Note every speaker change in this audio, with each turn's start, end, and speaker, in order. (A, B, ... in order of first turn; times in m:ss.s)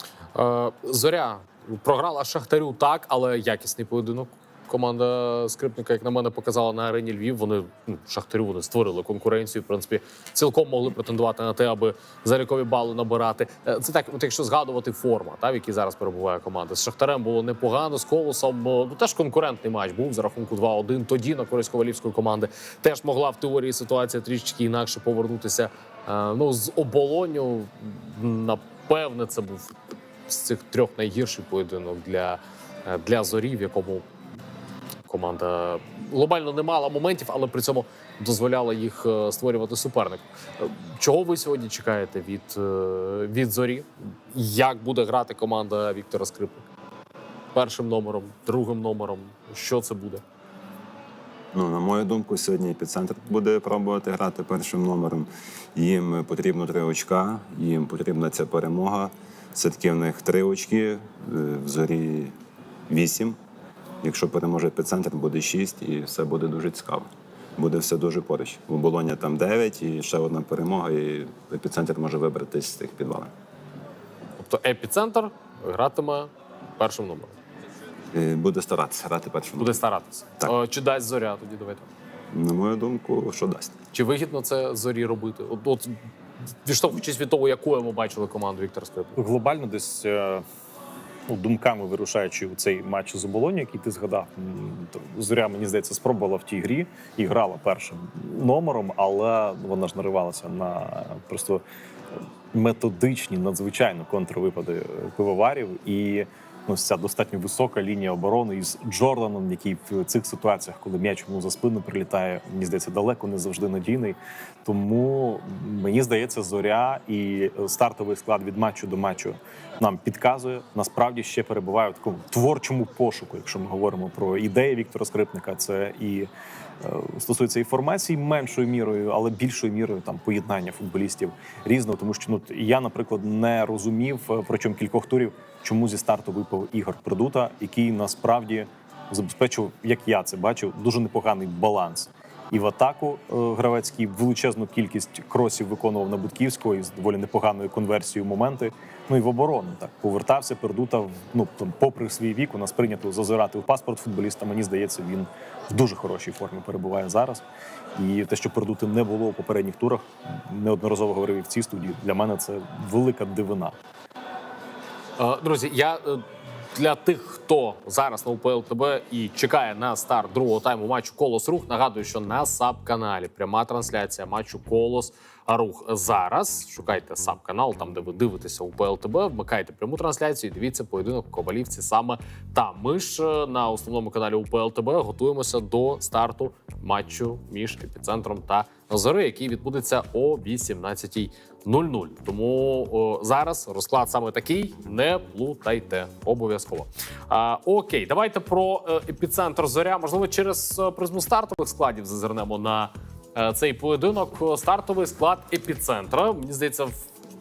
0:00.4-0:29.7 A
0:30.3-0:34.1 A
0:35.1-0:46.7 A
0:47.5-0:50.2 A
0:51.5-1:02.4 B
1:02.9-1:03.4 B
1:04.0-1:13.3 B
1:14.4-1:17.4 A
1:18.1-1:19.8 B
1:19.6-1:21.9 A
1:22.3-1:23.8 B
1:23.9-1:26.0 A
1:26.6-1:29.2 A
1:29.2-1:30.4 C
1:31.3-1:41.6 C
1:42.5-2:06.3 C
2:06.8-2:37.4 C
2:38.0-2:43.8 C
2:45.2-2:46.2 A
2:46.8-3:27.0 A